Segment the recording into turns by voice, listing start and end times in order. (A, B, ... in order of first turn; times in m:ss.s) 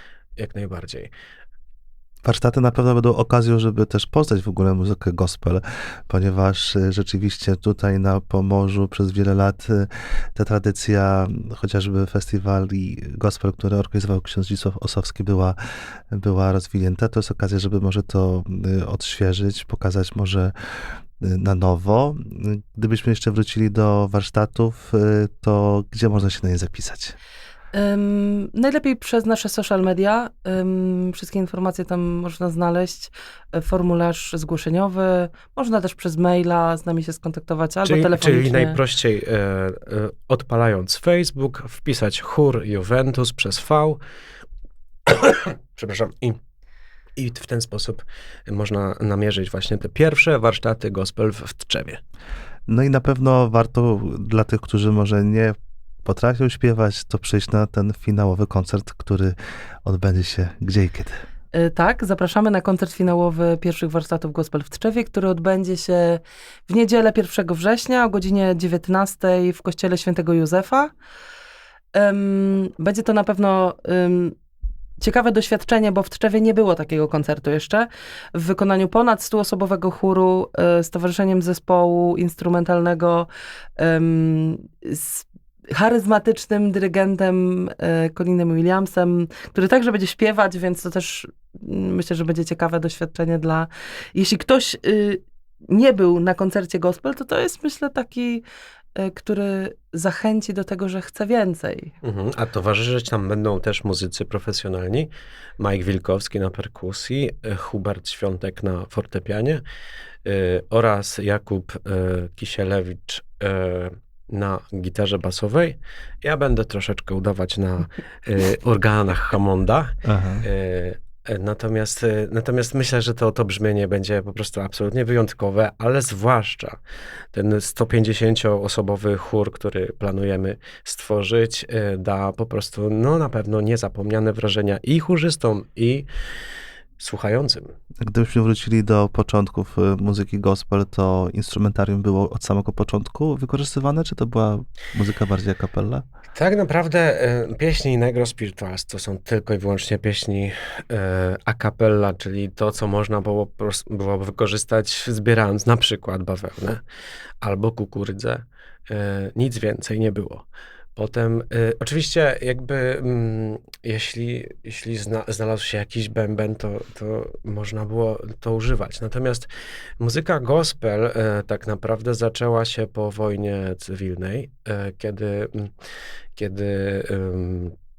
0:00.4-0:01.1 A
0:02.2-0:15.6 B
0:16.1-0:20.5 B
0:21.2-0:27.1 B
0:27.7-0:38.8 C
0:37.8-0:44.0 A
0:45.1-0:46.4 A
0:47.2-0:52.0 A
0:52.7-1:01.1 B
1:01.5-1:10.9 C
1:11.9-1:14.3 C
1:15.0-1:38.4 C
1:39.0-1:41.9 C
1:42.0-1:49.6 A
1:50.2-2:06.8 A
2:00.0-2:00.4 B
2:07.3-2:16.1 A
2:17.0-2:17.7 A
2:18.0-2:26.0 B
2:26.3-2:36.8 A
2:37.4-2:55.7 A
2:56.4-2:57.7 A